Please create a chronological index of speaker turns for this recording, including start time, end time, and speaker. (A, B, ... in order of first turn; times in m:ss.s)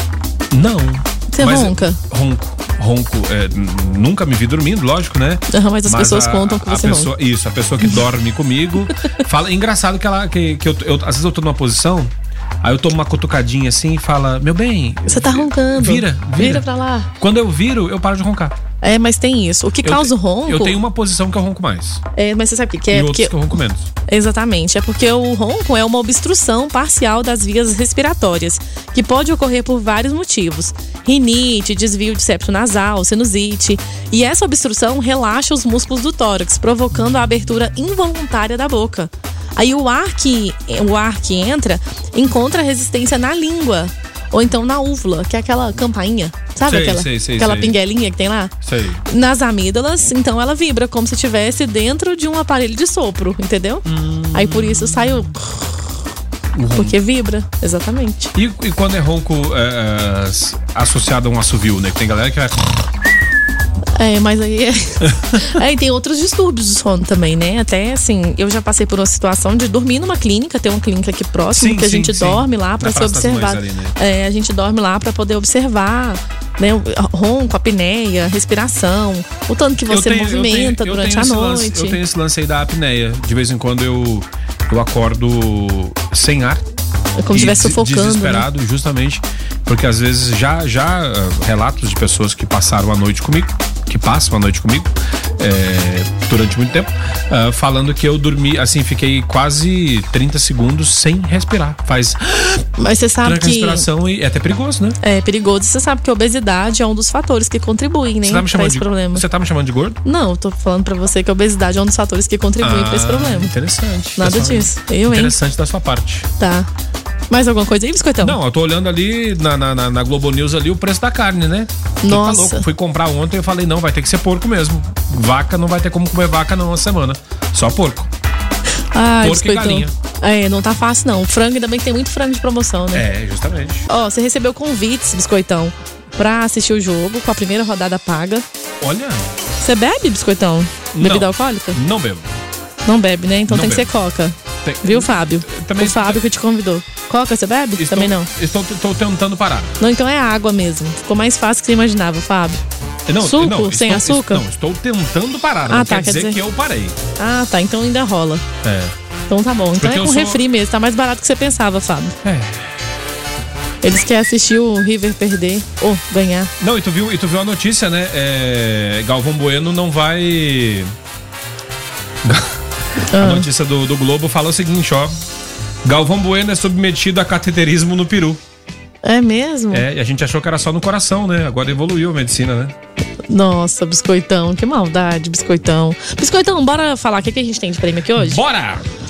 0:00.5-0:18.6 A
0:01.3-0:02.0 B
0:05.5-0:07.1 B
0:15.1-0:17.1 B
0:18.8-0:20.8 B
0:19.8-0:22.0 A
0:22.1-0:23.3 B
0:22.9-0:23.9 A
0:24.1-0:48.5 B
0:46.6-0:47.8 A
0:48.6-0:49.0 A
0:49.1-0:55.7 B
0:53.8-0:55.3 A
0:56.5-0:57.0 A
0:56.7-0:58.3 B
0:58.3-1:02.8 A
1:03.9-1:22.0 B
1:05.0-1:05.5 A
1:11.5-1:13.9 A
1:19.8-1:26.6 A
1:27.2-1:28.4 B
1:27.3-1:42.7 A
1:42.8-1:43.8 B
1:43.2-1:45.0 A
1:45.0-1:49.2 B
1:48.2-1:50.0 A
1:50.0-1:53.5 B
1:52.6-1:56.3 A
1:54.2-1:55.3 B
1:56.4-1:56.7 B
1:57.3-1:58.4 B
1:58.2-2:08.1 A
2:02.0-2:02.6 B
2:08.9-2:13.0 B
2:09.2-2:09.9 A
2:12.9-2:13.9 A
2:13.9-2:18.4 B
2:18.8-2:19.3 A
2:19.6-2:21.8 B
2:20.9-2:22.4 A
2:22.8-2:28.3 B
2:23.5-2:23.9 A
2:24.6-2:26.2 A
2:27.8-2:29.8 A
2:29.8-2:32.6 B
2:33.1-2:37.0 A
2:33.2-2:34.4 B
2:35.7-2:36.4 B
2:37.2-2:38.4 B
2:38.6-2:38.9 A
2:39.3-2:42.2 B
2:39.8-2:40.4 A
2:42.2-2:42.8 A
2:43.8-2:46.5 B
2:46.6-2:50.9 A
2:52.2-2:52.6 A
2:53.1-2:53.5 B
2:53.1-2:55.2 A
2:55.8-2:58.4 A
2:59.0-2:59.8 B
2:59.7-3:02.7 A
3:03.3-3:08.4 B
3:08.1-3:08.9 A